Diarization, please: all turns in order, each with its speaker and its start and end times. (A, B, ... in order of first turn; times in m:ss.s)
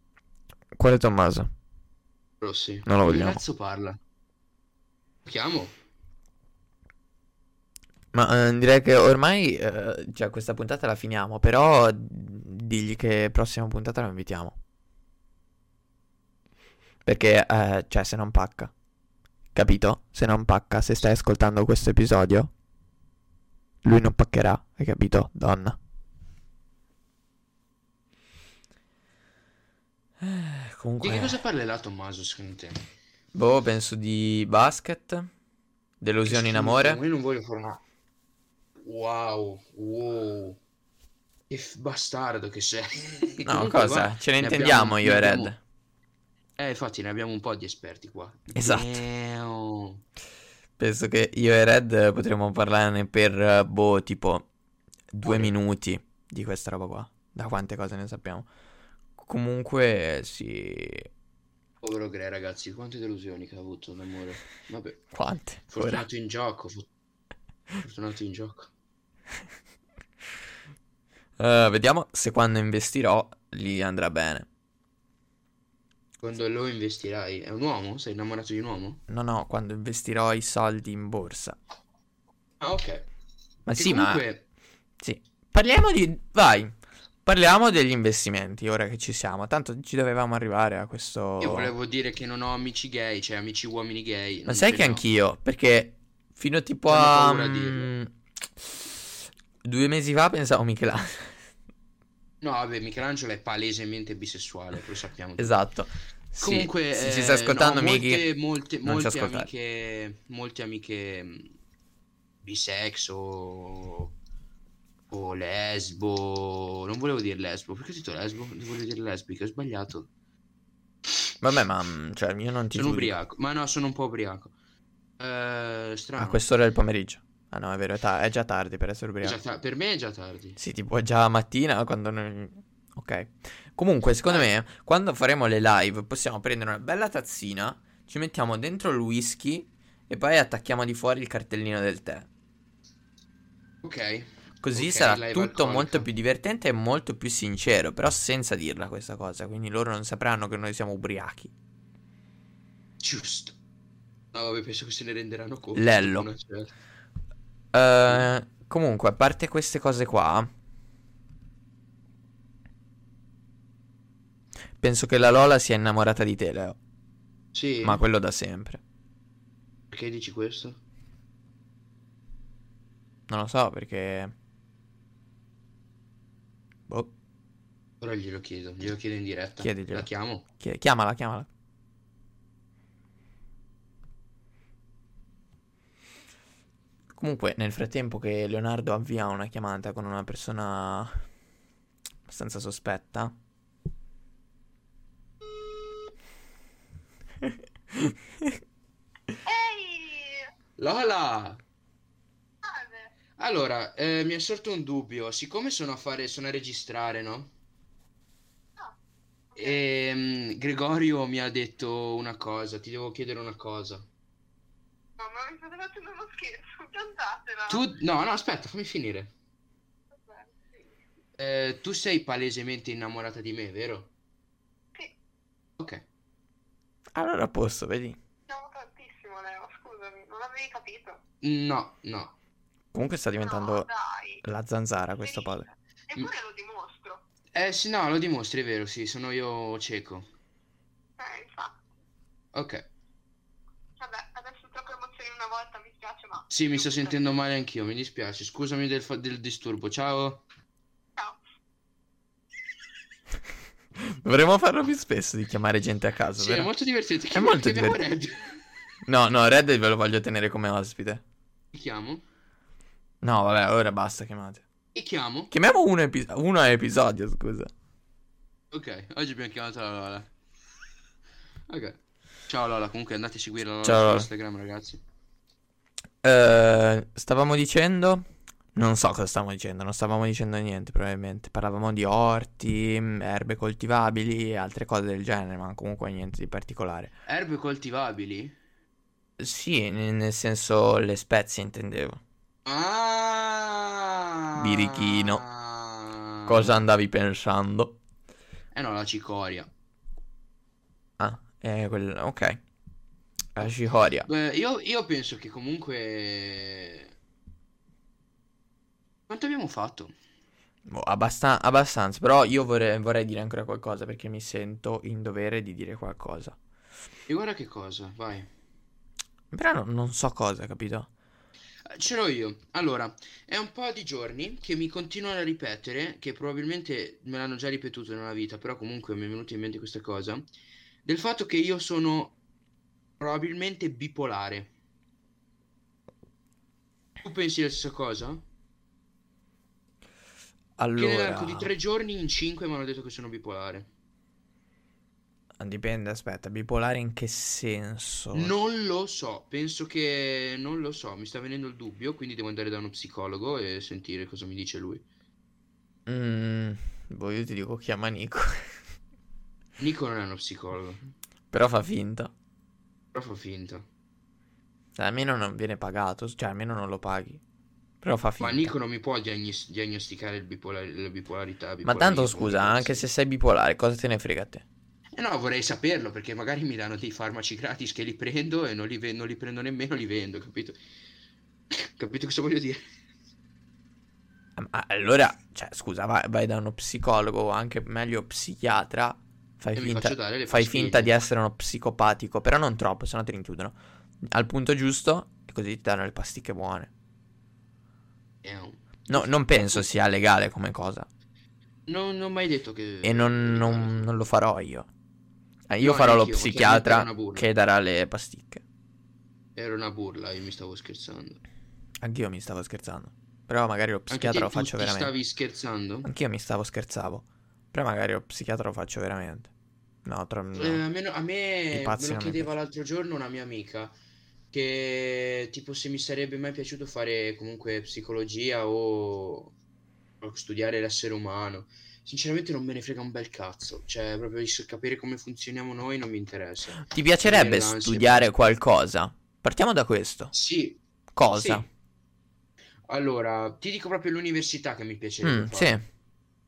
0:00.7-0:01.5 A
0:02.4-0:04.0 B
0:02.8-0:03.4 A
0:05.2-0:05.7 B
0:08.1-0:14.6 A
0:17.0-0:18.7 A
0:19.5-0:22.5 A
0:23.8-0:25.8 A
0:30.2-0:31.4 A
0:31.0-0:32.8 B
0:33.3-0:35.3 A
0:36.0-0:37.0 A
0:36.2-0:37.8 B
0:38.8-0:40.6 B
0:41.5-0:45.5 B
0:43.4-0:45.6 A
0:46.6-0:50.0 B
0:48.5-0:49.0 A
0:50.8-0:54.5 A
0:55.1-0:58.5 A
0:55.2-0:55.5 B
0:59.2-1:01.1 A
1:01.8-1:05.0 B
1:05.1-1:06.0 A
1:05.7-1:06.9 B
1:07.8-1:08.7 B
1:11.4-1:14.5 A
1:16.2-1:19.0 B
1:19.1-1:21.6 A
1:22.6-1:23.0 B
1:23.7-1:24.2 A
1:23.7-1:24.4 B
1:25.0-1:31.7 A
1:31.4-1:35.0 B
1:34.5-1:38.9 A
1:36.9-1:37.9 B
1:39.6-1:41.4 A
1:42.4-1:45.6 B
1:45.4-1:48.2 A
1:46.4-1:51.5 B
1:48.8-1:49.5 A
1:52.4-1:54.1 B
1:55.1-2:00.1 B
2:01.4-2:03.2 A
2:02.7-2:04.5 B
2:05.2-2:06.4 B
2:06.2-2:09.4 A
2:09.2-2:10.6 B
2:10.6-2:22.3 A
2:23.8-2:26.1 B
2:24.6-2:31.5 A
2:33.0-2:33.6 B
2:34.3-2:36.7 B
2:35.7-2:36.3 A
2:37.7-2:40.5 A
2:44.8-2:46.8 A
2:47.5-2:48.0 B
2:47.8-2:48.8 A
2:49.9-2:50.8 B
2:53.3-2:54.3 A
2:58.0-3:00.4 B
2:59.6-3:01.5 A
3:07.1-3:11.2 A
3:12.3-3:13.3 A
3:18.0-3:18.5 A
3:19.4-3:20.5 C
3:20.8-3:21.6 B
3:22.6-3:23.1 C
3:23.4-3:27.5 B
3:29.5-3:29.8 C
3:29.6-3:34.1 B
3:35.2-3:37.8 C
3:37.7-3:39.3 B
3:40.2-3:40.8 C
3:41.4-3:44.1 B
3:47.1-3:48.2 A
3:48.5-3:51.2 C
3:51.4-3:52.3 B
3:52.9-3:53.9 A
3:53.4-3:54.4 C
3:54.4-3:55.7 A
3:55.2-3:57.2 C
3:57.5-4:00.3 B
4:01.2-4:01.8 C
4:02.5-4:02.8 B
4:04.0-4:07.2 C
4:06.5-4:10.4 B
4:14.0-4:16.7 A
4:16.4-4:18.6 B
4:17.3-4:18.0 A
4:19.0-4:21.2 A
4:21.7-4:22.2 B
4:23.2-4:24.6 A
4:24.9-4:25.5 B
4:25.5-4:27.7 A
4:28.7-4:30.3 B
4:31.7-4:35.0 B
4:33.8-4:34.3 A
4:36.2-4:47.1 A
4:47.2-4:48.6 B
4:49.4-4:52.2 A
4:52.6-4:56.7 B
4:54.6-4:55.4 A
4:56.4-4:58.0 A
4:58.7-4:59.7 B
5:01.2-5:02.6 A
5:03.5-5:04.3 A
5:04.2-5:07.1 B
5:09.3-5:10.1 B
5:10.8-5:16.6 A
5:17.3-5:18.5 B
5:19.5-5:21.1 A
5:21.8-5:30.4 B
5:31.0-5:32.3 B
5:33.2-5:34.7 B
5:37.2-5:38.4 B
5:40.8-5:41.7 A
5:41.0-5:43.9 B
5:45.6-5:48.5 A
5:48.3-5:55.0 B
5:56.1-5:58.8 A
5:59.8-6:01.1 B
6:01.5-6:02.3 A
6:03.1-6:03.8 B
6:04.9-6:07.4 A
6:08.0-6:08.7 A
6:08.4-6:13.0 B
6:11.8-6:14.6 A
6:15.2-6:20.8 B
6:21.7-6:22.8 B
6:24.6-6:36.9 A
6:29.7-6:31.1 B
6:38.4-6:39.8 B
6:39.1-6:41.1 A
6:41.9-6:44.1 B
6:43.0-6:44.9 A
6:45.7-6:48.6 A
6:45.8-6:47.5 B
6:49.6-6:51.4 B
6:52.0-6:55.1 A
6:54.1-6:56.1 B
6:56.0-6:59.5 A
7:00.0-7:00.8 A
7:00.5-7:03.9 B
7:01.7-7:02.5 A
7:04.5-7:09.5 B
7:10.2-7:18.3 B
7:16.8-7:20.3 A
7:20.3-7:21.6 B
7:21.1-7:21.6 A
7:22.9-7:25.8 B
7:25.2-7:25.8 A